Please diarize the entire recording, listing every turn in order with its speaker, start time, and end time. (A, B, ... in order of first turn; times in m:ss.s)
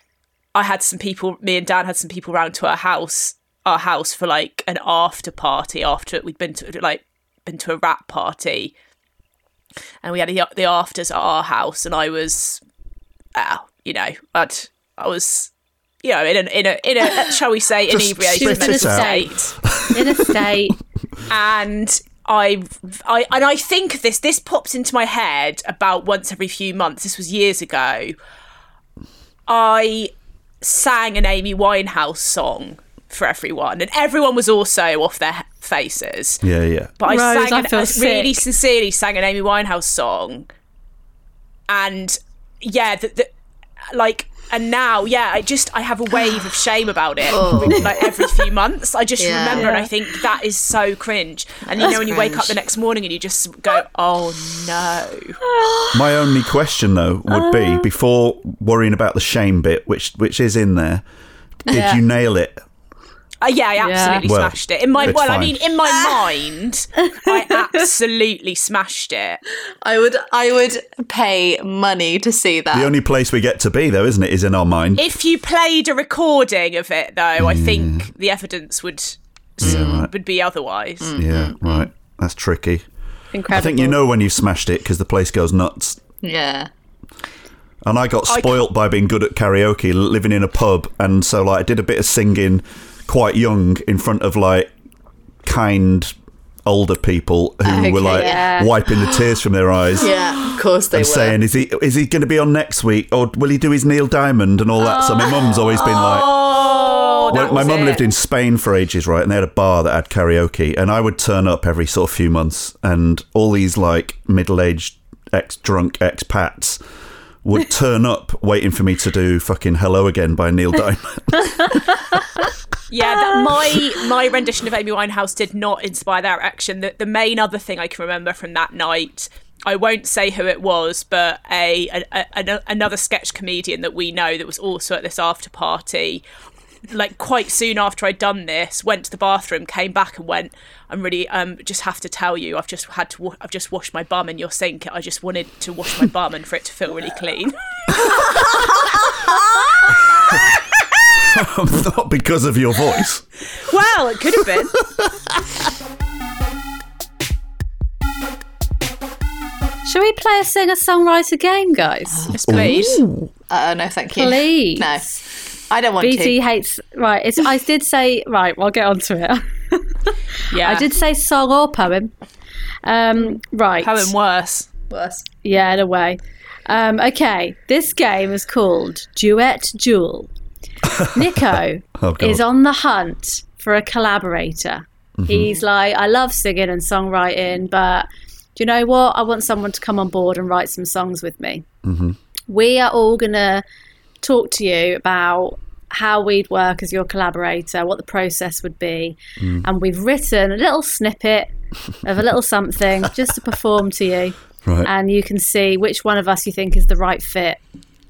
0:00.6-0:08.7 A
0:10.0-0:12.6 A
0:13.4-0:15.5 A
0:16.0-0:19.5 A
0:17.9-0:20.3 B
0:18.4-0:19.3 C
0:19.9-0:20.8 C
0:21.3-0:28.2 A
0:29.5-0:36.4 A
0:36.4-0:37.0 B
0:37.0-0:40.5 A
0:37.0-0:38.4 C
0:41.7-0:43.3 A
0:43.9-0:55.4 A
0:47.3-0:48.4 D
0:47.4-0:47.9 B
0:49.2-0:49.8 D
0:49.6-0:49.9 C
0:51.7-0:52.6 D
0:55.5-0:56.2 D
0:55.9-1:01.0 B
0:57.3-0:57.8 C
1:01.7-1:02.6 B
1:01.7-1:02.0 C
1:03.4-1:09.4 A
1:03.8-1:04.2 C
1:04.2-1:05.7 B
1:05.9-1:06.3 D
1:09.8-1:12.9 D
1:12.7-1:15.2 B
1:15.0-1:21.2 A
1:17.4-1:18.1 B
1:19.6-1:20.1 B
1:19.6-1:20.0 D
1:21.0-1:21.9 D
1:21.2-1:22.8 B
1:23.3-1:24.0 C
1:23.5-1:26.0 B
1:26.2-1:26.7 D
1:27.8-1:34.7 B
1:28.3-1:28.7 A
1:35.4-1:36.1 B
1:36.7-1:40.1 B
1:37.7-1:38.5 D
1:37.7-1:38.8 C
1:40.0-1:41.4 D
1:40.9-1:46.6 B
1:44.8-1:46.6 C
1:45.2-1:47.9 D
1:46.3-1:48.0 A
1:47.3-1:56.8 B
1:57.4-2:01.8 B
2:02.9-2:16.2 A
2:16.9-2:27.6 A
2:31.2-2:33.2 B
2:33.6-2:34.8 A
2:34.8-2:35.5 B
2:39.8-2:42.3 C
2:42.1-2:42.8 D
2:42.3-2:43.0 A
2:42.5-2:43.3 B
2:43.5-2:46.4 D
2:44.2-2:45.0 C
2:46.0-2:52.1 C
2:50.5-2:50.9 A
2:52.8-2:54.1 C
2:53.8-2:54.7 A
2:54.9-2:55.3 D
2:55.4-3:00.3 C
3:00.8-3:02.4 B
3:01.1-3:11.7 C
3:05.2-3:05.6 B
3:11.8-3:12.2 B
3:12.5-3:13.6 C
3:14.2-3:21.5 C
3:19.4-3:19.6 B
3:22.0-3:27.6 C
3:24.6-3:24.9 B